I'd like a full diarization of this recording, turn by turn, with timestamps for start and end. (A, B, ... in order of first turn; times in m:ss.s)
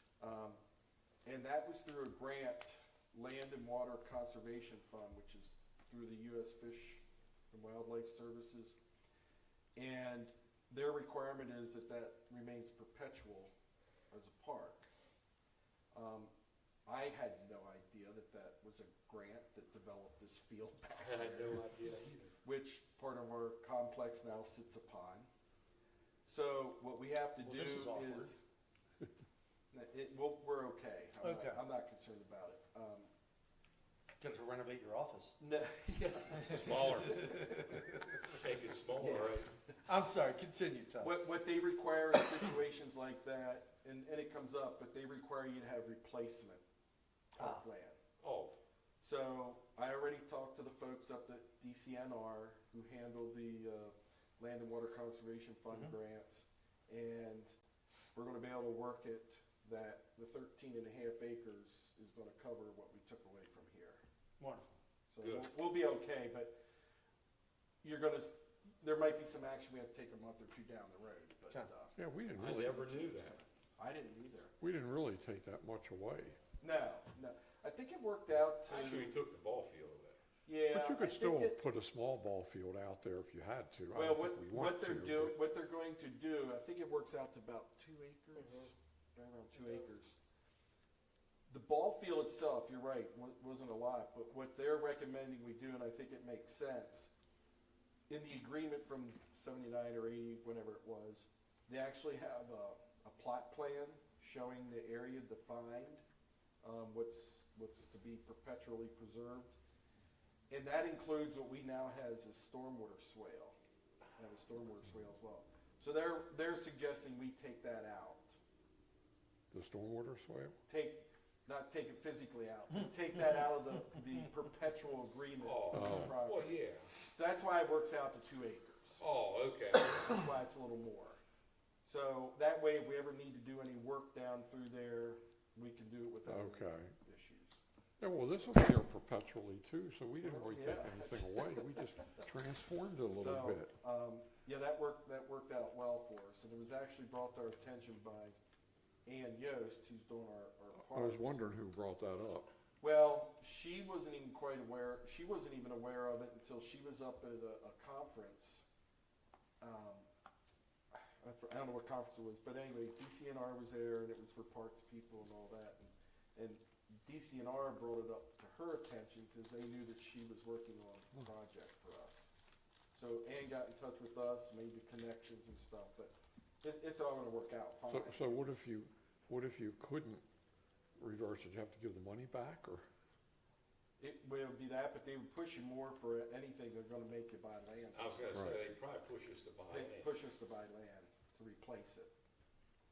0:00.2-0:00.6 A
0:01.2-0:08.8 A
0:09.8-0:13.5 A
0:14.1-0:14.9 A
0:15.9-0:16.3 A
0:16.8-0:21.6 A
0:21.0-0:22.4 B
0:22.4-0:25.3 A
0:26.2-0:28.4 A
0:27.4-0:28.3 C
0:29.7-0:33.1 A
0:31.2-0:31.6 C
0:34.2-0:35.4 C
0:35.4-0:37.8 A
0:36.2-0:37.4 B
0:36.5-0:38.2 C
0:38.2-0:39.5 B
0:39.0-0:39.7 A
0:39.8-0:41.2 C
0:41.0-0:46.6 A
0:47.4-0:48.0 A
0:48.2-0:48.5 B
0:49.0-0:57.5 A
0:58.1-1:04.0 A
1:04.4-1:04.8 C
1:05.1-1:06.6 A
1:05.2-1:05.5 B
1:07.8-1:11.9 A
1:12.0-1:12.9 D
1:12.4-1:13.4 B
1:13.8-1:14.5 A
1:14.6-1:16.4 D
1:16.6-1:19.2 A
1:18.6-1:20.2 B
1:20.4-1:21.6 A
1:20.7-1:25.4 D
1:23.9-1:30.2 A
1:28.4-1:28.7 B
1:29.6-1:29.9 B
1:31.5-1:37.1 A
1:38.1-1:46.0 A
1:46.6-1:49.6 A
1:50.5-1:53.6 A
1:54.2-1:58.4 A
1:59.5-2:00.5 D
2:00.7-2:09.0 A
2:05.4-2:06.9 B
2:05.7-2:06.2 D
2:09.0-2:10.2 B
2:10.0-2:11.2 A
2:11.8-2:17.6 A
2:16.2-2:16.9 D
2:18.0-2:23.7 D
2:20.2-2:22.3 A
2:23.1-2:28.3 A
2:29.0-2:31.4 A
2:30.7-2:32.5 D
2:32.8-2:38.6 A
2:39.6-2:40.1 A
2:40.9-2:52.3 A
2:52.9-2:58.5 A
2:57.9-3:00.2 D
3:01.0-3:02.8 D
3:04.0-3:08.2 A
3:07.9-3:10.1 B
3:08.3-3:08.6 D
3:09.7-3:12.1 A